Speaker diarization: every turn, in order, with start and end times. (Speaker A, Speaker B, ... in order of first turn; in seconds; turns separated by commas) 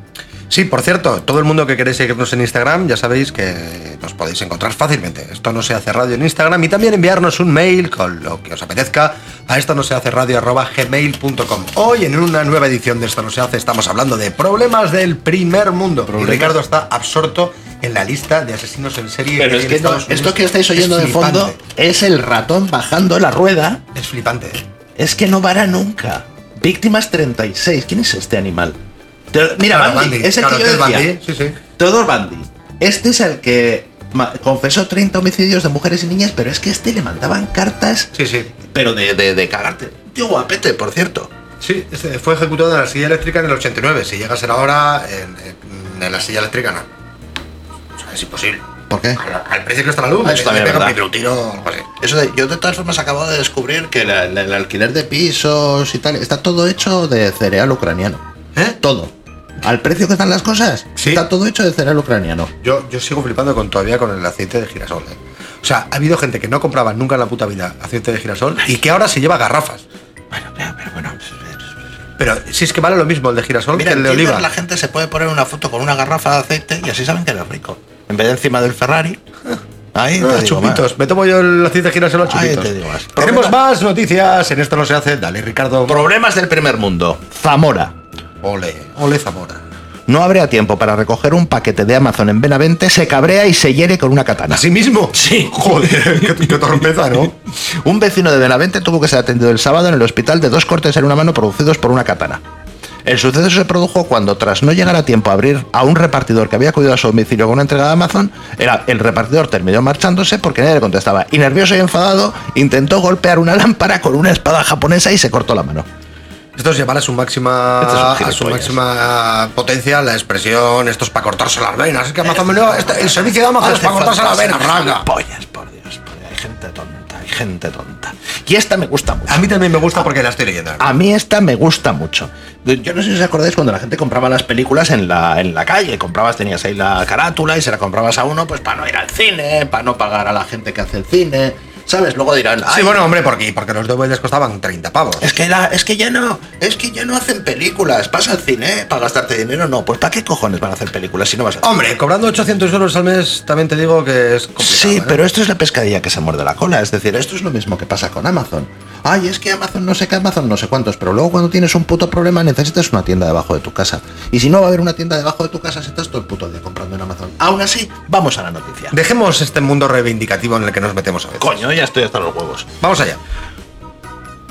Speaker A: 0.5-21.6, Speaker B: 16.1-16.6, Speaker B: 19.4-23.8, Speaker A: 23.9-24.6, Speaker B: 25.0-28.8, Speaker B: 29.3-31.2, Speaker A: 29.7-31.6, Speaker B: 31.8-41.3, Speaker A: 38.1-38.5, Speaker A: 41.6-46.9, Speaker A: 48.0-48.6, Speaker B: 48.9-49.2, Speaker A: 49.2-51.9, Speaker B: 50.2-51.0, Speaker B: 52.0-58.2, Speaker B: 58.8-62.5, Speaker A: 61.0-61.2, Speaker A: 62.6-69.8, Speaker B: 70.3-71.6, Speaker A: 72.2-74.5, Speaker B: 73.7-79.2, Speaker B: 79.9-80.9, Speaker A: 80.2-86.0, Speaker B: 82.2-83.6, Speaker B: 85.9-88.0, Speaker A: 88.4-89.6, Speaker B: 90.1-96.6, Speaker A: 94.5-97.4, Speaker B: 97.7-102.4, Speaker B: 103.0-115.9, Speaker A: 116.5-125.1, Speaker B: 117.8-118.8, Speaker B: 122.3-130.1, Speaker A: 129.3-130.9, Speaker B: 130.8-143.0, Speaker A: 142.7-145.3, Speaker B: 145.2-151.7, Speaker A: 151.6-155.2, Speaker B: 154.6-169.0, Speaker A: 168.9-171.6, Speaker B: 171.4-172.7, Speaker A: 172.8-173.2